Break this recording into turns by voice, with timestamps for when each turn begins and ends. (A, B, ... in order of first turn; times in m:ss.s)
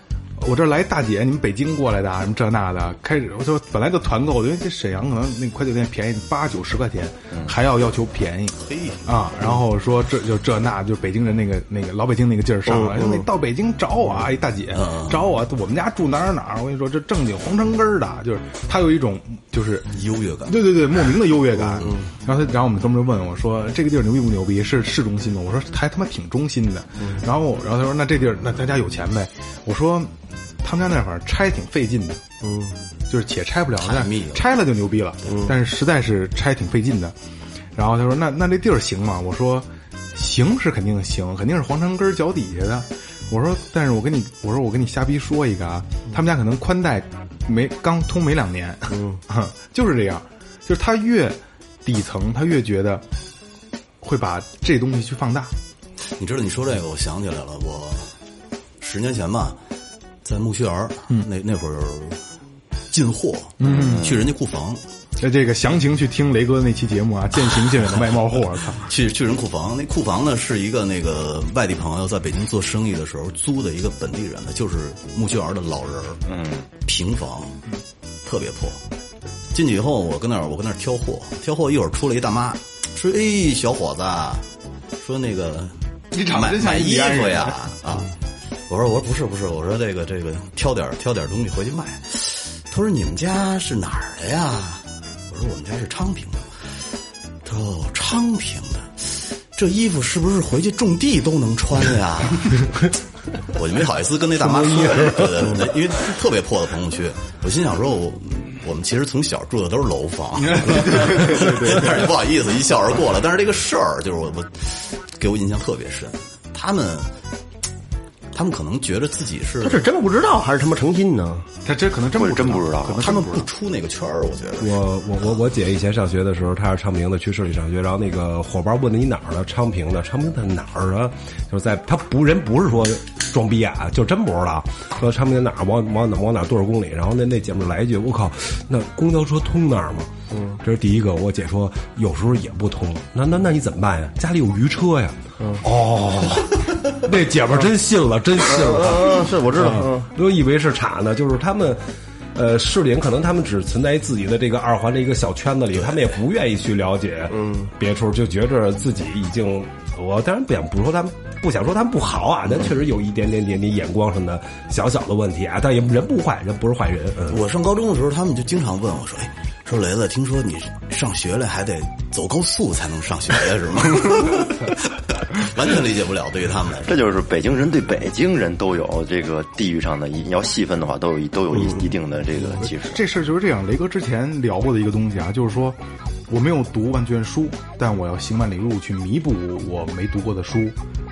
0:00.4-0:19.9 A
0:08.6-0:09.1 B
0:12.7-0:13.2 C
0:14.7-0:15.2 B
0:19.9-0:20.8 B
0:20.4-0:32.2 A
0:21.8-0:22.0 C
0:32.4-0:32.8 C
0:33.1-0:37.2 A
0:33.8-0:34.6 B
0:37.8-0:53.0 A
0:48.9-0:49.2 C
0:54.0-0:55.5 A
0:56.1-0:58.1 B
0:58.8-0:59.6 B
1:00.2-1:02.2 B
1:02.9-1:04.8 B
1:03.6-1:04.1 A
1:03.6-1:04.1 D
1:05.2-1:08.9 A
1:08.8-1:16.2 B
1:16.3-1:16.6 D
1:16.8-1:17.6 B
1:18.2-1:18.8 B
1:19.5-1:24.4 B
1:25.0-1:28.1 B
1:26.1-1:27.6 A
1:28.7-1:36.9 B
1:37.4-1:42.9 B
1:43.5-1:57.1 B
1:44.4-1:45.6 E
1:50.5-1:52.1 A
1:58.3-1:59.9 B
1:59.6-2:01.5 C
2:01.6-2:03.5 A
2:02.2-2:03.0 D
2:03.0-2:04.8 B
2:04.6-2:20.1 E
2:20.3-2:20.6 C
2:20.6-2:31.8 E
2:28.5-2:30.1 C
2:32.3-2:47.4 E
2:37.3-2:37.7 C
2:47.3-2:57.0 B
2:56.8-3:03.0 D
3:02.5-3:10.8 A